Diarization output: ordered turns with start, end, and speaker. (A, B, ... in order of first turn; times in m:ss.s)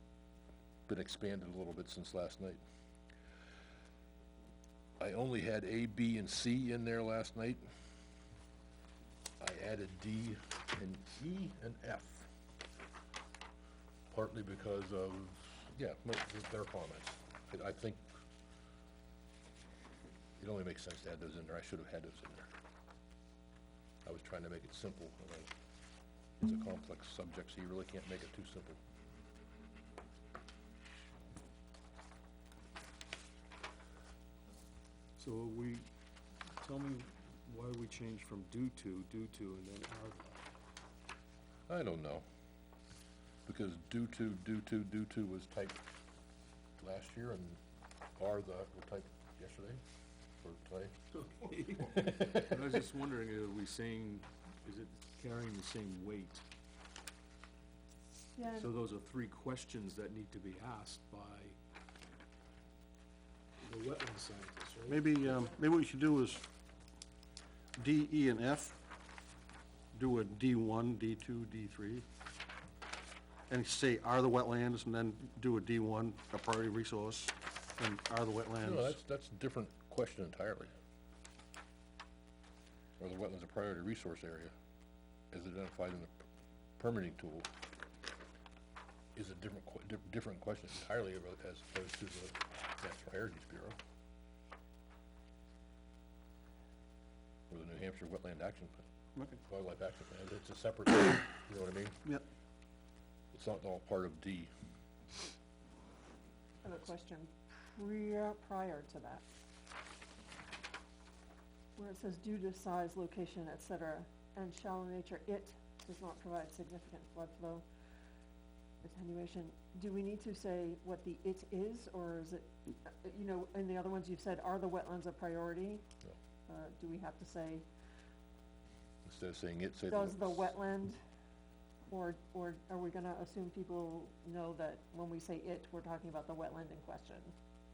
0:00.9-0:02.6 A
0:05.0-0:07.6 A
0:09.4-0:12.3 A
0:14.1-0:18.1 A
0:20.4-0:22.5 A
0:24.0-0:25.5 A
0:26.4-0:28.8 A
0:35.2-0:35.9 B
0:36.6-0:40.4 B
0:41.7-0:42.2 A
0:43.5-0:45.8 A
0:46.8-0:47.6 A
0:48.2-0:49.8 A
0:50.4-0:51.0 A
0:51.2-0:56.4 B
0:51.9-0:52.4 A
0:58.4-0:58.7 C
0:58.5-1:01.6 B
1:03.6-1:05.4 B
1:04.9-1:06.4 D
1:07.8-1:08.8 D
1:09.9-1:12.0 D
1:13.5-1:19.0 D
1:18.6-1:20.7 A
1:23.0-1:24.5 A
1:25.3-1:26.2 A
1:26.8-1:27.5 A
1:29.2-1:33.8 A
1:37.5-1:38.8 A
1:39.5-1:42.0 A
1:43.3-1:44.5 A
1:46.6-1:49.2 C
1:51.8-1:57.6 C
1:58.8-2:05.8 C
2:06.5-2:07.7 C
2:09.1-2:10.5 A
2:09.9-2:11.0 C
2:11.9-2:17.3 C